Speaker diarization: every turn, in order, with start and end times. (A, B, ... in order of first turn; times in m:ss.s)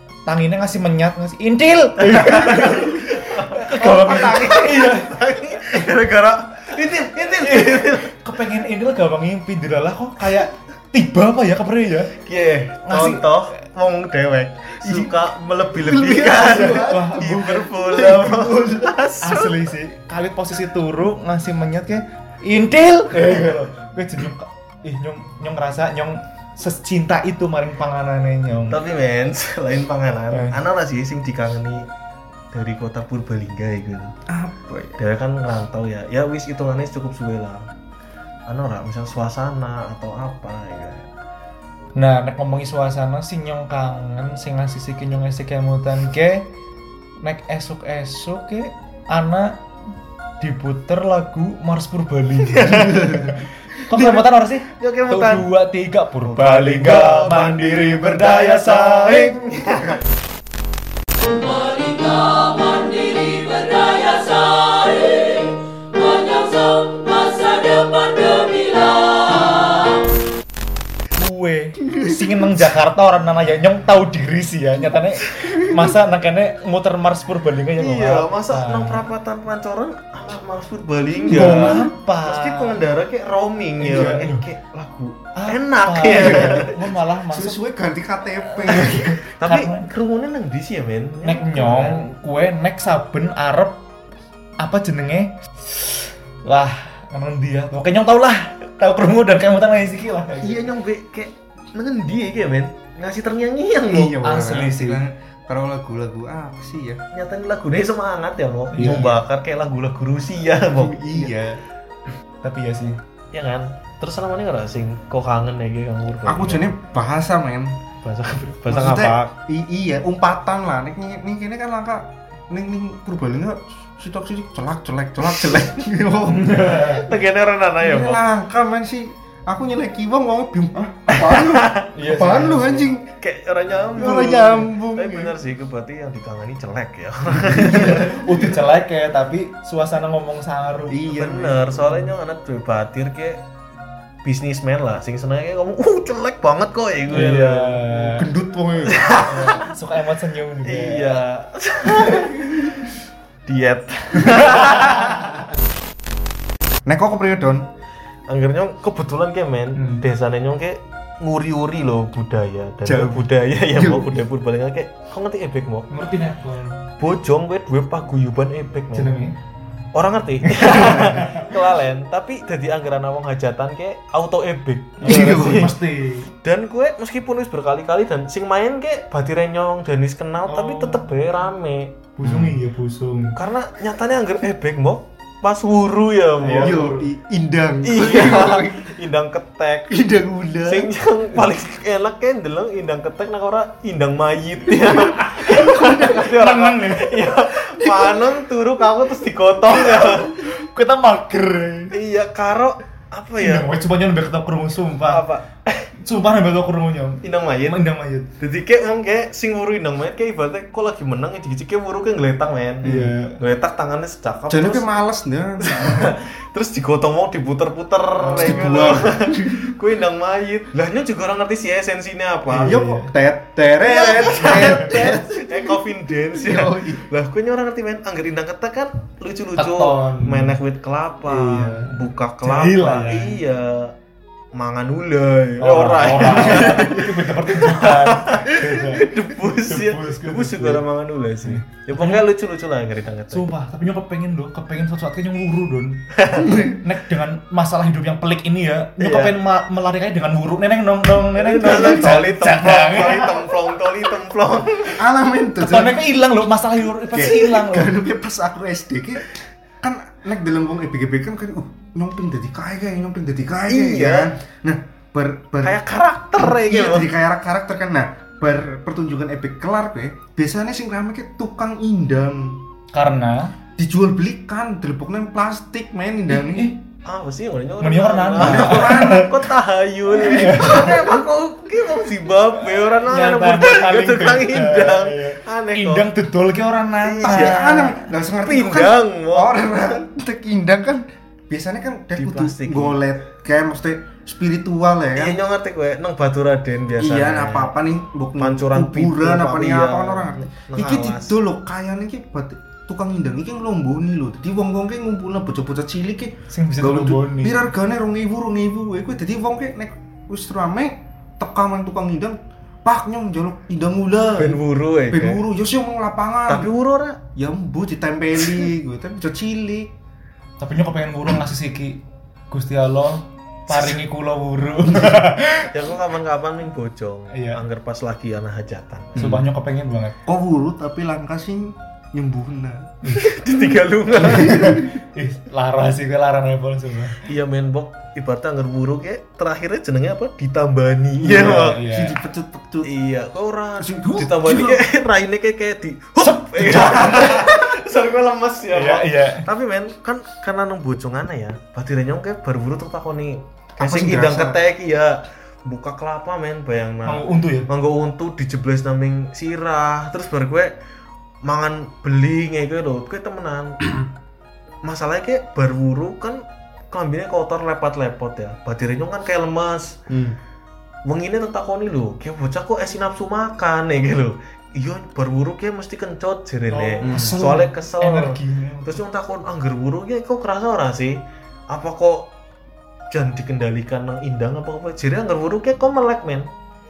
0:00.3-0:05.6 A
0:02.0-0:08.2 B
0:07.4-0:12.2 A
0:12.2-0:19.6 B
0:12.9-0:13.3 A
0:14.8-0:15.1 C
0:15.7-0:19.0 C
0:16.4-0:17.7 A
0:19.2-0:28.8 A
0:28.7-0:31.9 B
0:30.3-0:30.6 A
0:32.5-0:34.1 B
0:34.3-0:35.0 C
0:35.0-0:37.7 B
0:38.5-0:41.1 B
0:42.0-0:46.5 A
0:47.2-0:49.6 A
0:50.4-0:59.4 A
0:52.4-0:53.4 B
0:53.9-0:55.5 B
0:56.2-1:00.0 B
1:01.4-1:10.0 D
1:11.2-1:19.0 A
1:11.8-1:12.5 C
1:17.8-1:26.8 B
1:21.3-1:22.8 A
1:21.3-1:21.8 C
1:23.8-1:24.4 A
1:25.4-1:27.6 A
1:26.1-1:26.7 C
1:27.3-1:29.1 C
1:28.6-1:29.9 A
1:28.7-1:32.1 B
1:31.2-1:33.8 A
1:34.6-1:40.7 A
1:40.4-1:44.2 B
1:43.9-1:47.0 C
1:44.2-1:45.0 A
1:47.1-1:51.3 B
1:48.7-1:49.2 A
1:50.7-1:51.6 C
1:52.4-1:53.0 A
1:53.3-1:56.7 B
1:56.2-1:57.8 C
1:58.0-1:59.3 B
1:58.7-2:06.7 C
2:06.3-2:07.1 A
2:06.7-2:08.2 B
2:07.8-2:13.1 C
2:11.1-2:11.9 B
2:11.9-2:12.9 A
2:13.2-2:18.2 B
2:14.0-2:15.4 C
2:17.4-2:18.1 C
2:17.6-2:21.0 A
2:20.9-2:21.9 C
2:21.0-2:23.4 B
2:24.2-2:27.8 B
2:27.1-2:28.3 A
2:27.9-2:29.2 C
2:28.9-2:29.7 B
2:29.2-2:31.2 A
2:30.6-2:32.8 B
2:33.5-2:35.4 B
2:34.3-2:35.1 A
2:36.9-2:37.7 C
2:38.3-2:45.9 B
2:39.8-2:40.0 A
2:42.8-2:44.2 C
2:45.9-2:46.8 A
2:47.0-2:49.1 B
2:48.9-2:49.4 A
2:49.9-2:55.8 B
2:50.4-2:51.5 A
2:55.0-2:56.3 A
2:55.0-2:55.7 C
2:56.4-3:02.0 B
3:00.5-3:01.1 A
3:02.2-3:03.4 A
3:02.2-3:02.5 C
3:03.4-3:06.9 B
3:06.4-3:07.1 A
3:06.6-3:08.9 C
3:07.8-3:09.9 B
3:09.9-3:10.9 C
3:10.6-3:20.4 B
3:15.3-3:17.2 A
3:15.6-3:16.2 C
3:17.8-3:18.3 C
3:19.9-3:20.3 C
3:20.6-3:22.0 A
3:21.9-3:23.7 B
3:23.4-3:25.2 A
3:25.1-3:25.9 B
3:26.0-3:28.3 A
3:27.2-3:27.8 B
3:28.4-3:34.9 B
3:32.8-3:33.4 A
3:32.8-3:33.1 C
3:34.5-3:36.1 C
3:35.6-3:42.8 B
3:38.2-3:39.0 A
3:38.3-3:39.8 C
3:42.5-3:43.1 A
3:42.6-3:45.8 C
3:43.8-3:53.9 B
3:44.4-3:44.9 A
3:46.3-3:47.0 C
3:49.6-3:50.6 A
3:51.3-3:53.4 A
3:54.5-4:03.5 B
3:55.6-4:00.8 A
3:56.3-3:57.0 C
4:01.4-4:02.2 A
4:03.3-4:06.0 A
4:06.2-4:06.6 B
4:06.4-4:06.8 C
4:06.7-4:13.4 A
4:09.0-4:09.4 B
4:11.4-4:15.0 B
4:11.7-4:12.2 C
4:15.0-4:16.0 C
4:15.6-4:18.0 A
4:17.1-4:19.3 C
4:19.8-4:25.8 C
4:23.7-4:24.3 B
4:25.6-4:27.1 B
4:26.4-4:32.6 C
4:32.9-4:33.5 A
4:33.8-4:36.7 C
4:36.3-4:36.8 A
4:37.0-4:46.1 B
4:37.8-4:39.3 A
4:38.4-4:39.3 C
4:40.2-4:41.1 C
4:40.2-4:41.0 A
4:42.6-4:48.0 A
4:47.0-4:47.9 B
4:47.2-4:55.4 C
4:48.4-4:49.6 B
4:52.2-4:53.0 B
4:55.2-4:57.8 B
4:57.0-5:16.7 C
4:58.4-5:01.4 B
5:06.5-5:07.6 A
5:14.4-5:15.4 B
5:16.5-5:17.2 B
5:17.4-5:19.9 C
5:20.6-5:25.7 A
5:23.7-5:24.0 B
5:25.7-5:29.3 B
5:27.3-5:27.6 A
5:29.2-5:30.2 A
5:29.2-5:29.4 C
5:30.2-5:32.9 C
5:33.0-5:33.3 A
5:33.2-5:34.8 B
5:34.2-5:34.8 C
5:34.2-5:37.2 A
5:37.2-5:41.8 B
5:41.2-5:42.2 A
5:41.4-5:42.9 C
5:42.8-6:00.8 B
5:43.8-5:44.8 C
5:46.2-5:47.5 A
5:48.7-5:49.4 A
5:53.8-5:54.6 C
5:57.1-5:57.7 A
6:01.4-6:03.8 B
6:04.8-6:10.0 B
6:10.1-6:10.4 C
6:11.0-6:22.3 B
6:16.7-6:19.0 A
6:17.0-6:17.4 C
6:23.1-6:26.5 B